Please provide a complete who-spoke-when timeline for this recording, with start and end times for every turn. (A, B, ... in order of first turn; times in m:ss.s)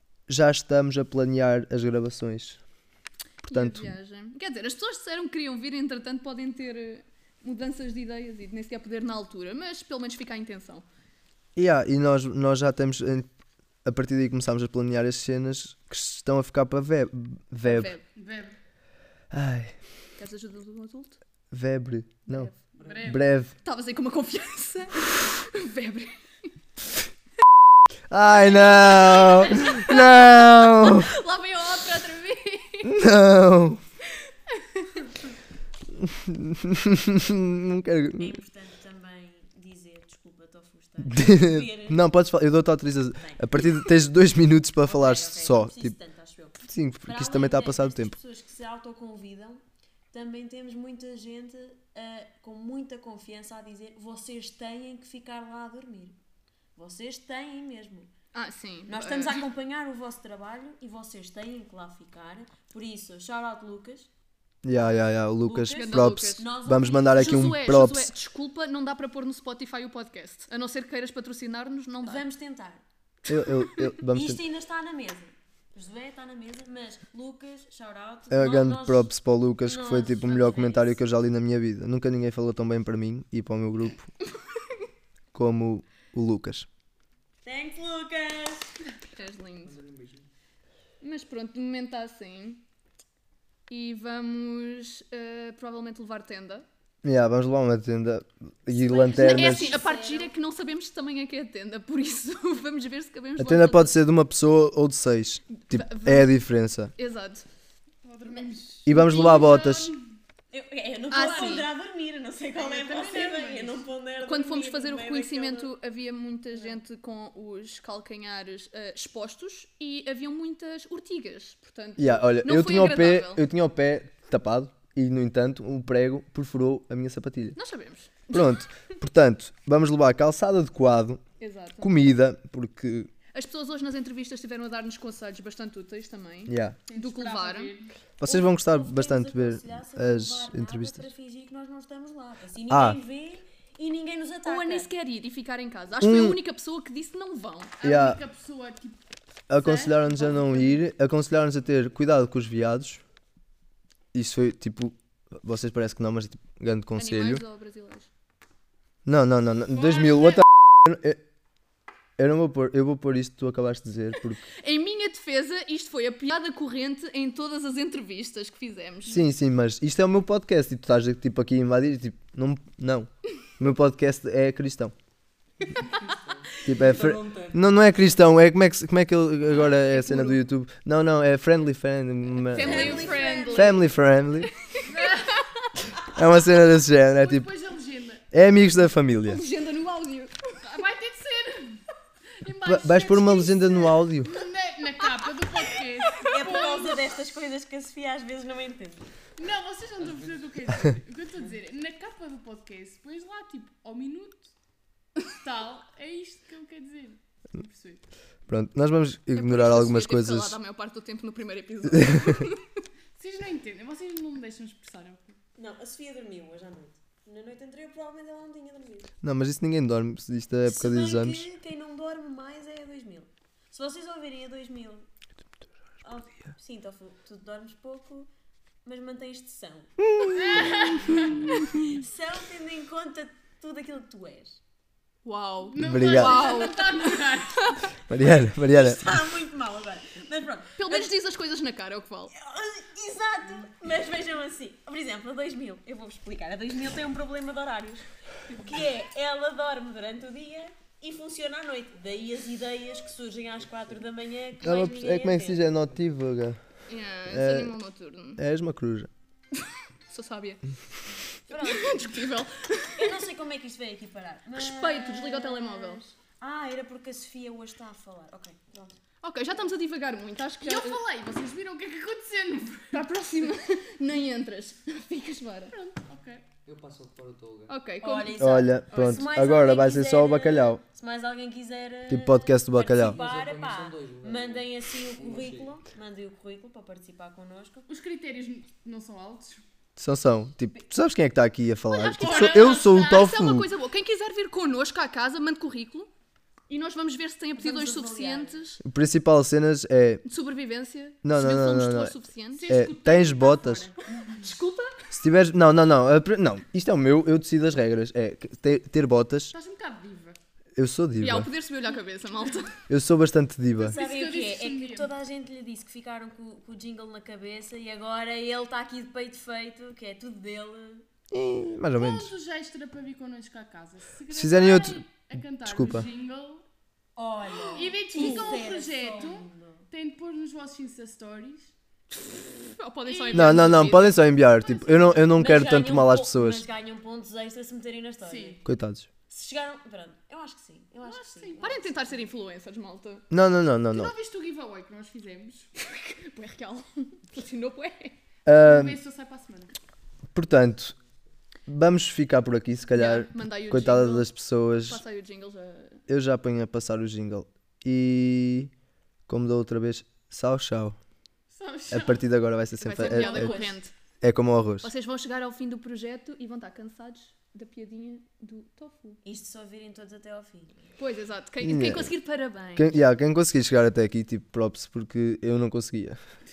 0:00.3-0:02.6 A
0:03.4-0:10.8 B
0:03.4-0:03.9 A
0:11.6-0:13.3 A
0:13.8-0:17.9 A
0:17.6-0:18.0 B
0:18.1-0:18.6 C
0:19.3-0:19.8 A
0:20.2-0:21.2 B
0:21.5-0:22.5 A
0:22.3-0:22.6 B
0:22.8-0:23.1 D
0:22.8-0:23.2 C
0:23.0-0:23.5 A
0:23.6-0:26.5 B
0:28.1-0:31.1 A
0:28.2-0:32.9 B
0:32.8-0:33.8 A
0:34.6-0:34.9 B
0:36.0-0:38.4 A
0:38.2-0:42.1 E
0:41.0-0:45.9 A
0:43.2-0:43.5 E
0:44.8-0:49.6 E
0:46.6-0:48.2 A
0:50.1-0:56.2 E
0:56.8-0:58.1 E
0:58.3-0:59.4 B
0:58.9-1:04.1 E
1:04.6-1:08.1 A
1:05.4-1:07.5 E
1:05.7-1:06.5 B
1:07.1-1:12.2 B
1:12.0-1:12.8 E
1:13.3-1:14.4 A
1:13.3-1:13.9 B
1:14.1-1:19.1 E
1:18.3-1:24.1 A
1:19.6-1:21.1 E
1:25.3-1:26.7 A
1:27.4-1:28.7 E
1:29.1-1:29.8 B
1:29.6-1:30.3 D
1:31.0-1:32.6 B
1:33.7-1:36.6 B
1:37.0-1:39.8 A
1:38.7-1:40.3 E
1:39.1-1:44.0 B
1:43.4-1:46.9 A
1:45.7-1:46.3 B
1:47.0-1:47.4 B
1:48.0-1:49.9 C
1:48.3-1:48.6 E
1:48.8-1:49.9 A
1:49.1-1:49.4 B
1:50.5-1:55.7 E
1:51.1-1:51.7 B
1:52.6-1:53.8 C
1:54.2-2:03.4 B
2:02.0-2:07.6 A
2:07.6-2:08.4 B
2:08.3-2:11.2 A
2:11.4-2:11.9 B
2:11.8-2:13.1 A
2:13.3-2:17.7 B
2:16.5-2:16.8 A
2:16.9-2:17.9 C
2:18.2-2:21.1 A
2:18.2-2:24.9 E
2:22.7-2:23.0 A
2:24.4-2:27.8 B
2:26.0-2:26.4 A
2:27.8-2:30.8 C
2:27.8-2:28.2 A
2:29.5-2:33.0 A
2:34.1-2:37.4 A
2:37.0-2:38.1 B
2:39.0-2:41.2 A
2:42.2-2:44.4 A
2:44.6-2:49.2 B
2:49.1-2:54.9 A
2:56.1-2:57.6 D
2:56.6-3:04.5 A
2:59.9-3:00.4 B
3:02.4-3:03.8 B
3:02.6-3:03.4 C
3:02.6-3:03.8 E
3:04.4-3:04.9 B
3:04.8-3:05.5 C
3:05.4-3:05.7 B
3:06.1-3:07.5 A
3:07.1-3:08.2 C
3:08.3-3:09.4 A
3:09.2-3:10.5 B
3:10.6-3:11.8 C
3:12.4-3:17.1 C
3:12.6-3:14.3 A
3:16.2-3:19.1 E
3:19.4-3:24.5 C
3:25.2-3:28.0 C
3:28.5-3:30.6 A
3:29.3-3:32.8 B
3:33.1-3:35.4 C
3:35.6-3:39.1 E
3:39.2-3:41.5 A
3:40.6-3:45.1 E
3:46.0-3:48.3 E
3:48.8-3:49.9 E
3:50.1-3:51.3 A
3:50.3-3:51.5 C
3:51.1-3:54.6 E
3:55.2-3:57.8 B
3:55.7-3:57.9 C
3:55.8-3:56.4 A
3:58.1-3:59.1 A
3:58.1-4:01.1 E
4:00.8-4:02.3 B
4:02.3-4:15.6 E
4:14.6-4:16.6 A
4:16.9-4:18.4 B
4:17.3-4:17.8 A
4:18.4-4:19.1 A
4:20.1-4:20.7 B
4:21.5-4:22.3 E
4:21.5-4:23.2 B
4:23.0-4:29.0 E
4:24.5-4:26.0 B
4:29.2-4:31.0 B
4:30.6-4:33.1 C
4:32.9-4:35.7 B
4:35.7-4:36.5 C
4:36.6-4:37.8 D
4:37.7-4:38.6 B
4:38.0-4:47.9 E
4:38.3-4:40.8 A
4:42.1-4:43.2 A
4:43.0-4:45.7 D
4:47.9-4:49.6 C
4:50.0-4:53.7 A
4:51.9-4:53.3 C
4:52.0-4:56.1 B
4:56.7-4:58.8 B
4:57.6-4:58.6 E
4:58.8-5:00.2 A
5:00.2-5:02.8 B
5:01.2-5:02.1 A
5:02.5-5:04.4 C
5:02.7-5:03.9 A
5:04.3-5:04.9 B
5:05.1-5:09.5 A
5:09.5-5:10.4 C
5:10.8-5:11.5 A
5:11.2-5:12.8 B
5:12.9-5:14.0 A
5:13.8-5:15.1 C
5:13.9-5:21.0 E
5:21.3-5:22.3 A
5:22.0-5:26.6 C
5:24.3-5:25.0 A
5:25.6-5:26.1 A
5:27.2-5:29.9 E
5:27.5-5:31.7 C
5:28.1-5:28.4 B
5:32.7-5:34.2 B
5:33.0-5:34.0 C
5:33.3-5:36.6 A
5:34.6-5:35.2 C
5:35.3-5:38.6 E
5:38.2-5:38.6 C
5:38.6-5:39.1 A
5:39.3-5:42.0 E
5:41.0-5:41.8 C
5:41.6-5:43.2 B
5:43.3-5:44.1 A
5:43.9-5:45.7 C
5:45.8-5:48.1 B
5:48.4-5:49.0 A
5:48.6-5:49.7 C
5:50.3-5:50.9 A
5:51.7-5:55.0 A
5:52.9-5:56.0 B
5:56.1-5:58.7 A
5:59.3-6:01.0 A
6:01.5-6:02.3 C
6:01.9-6:03.6 A
6:02.8-6:03.9 B
6:03.0-6:03.8 C
6:04.2-6:04.9 A
6:04.8-6:09.2 B
6:09.2-6:10.9 E
6:11.0-6:12.9 B
6:11.6-6:12.1 A
6:12.8-6:16.2 A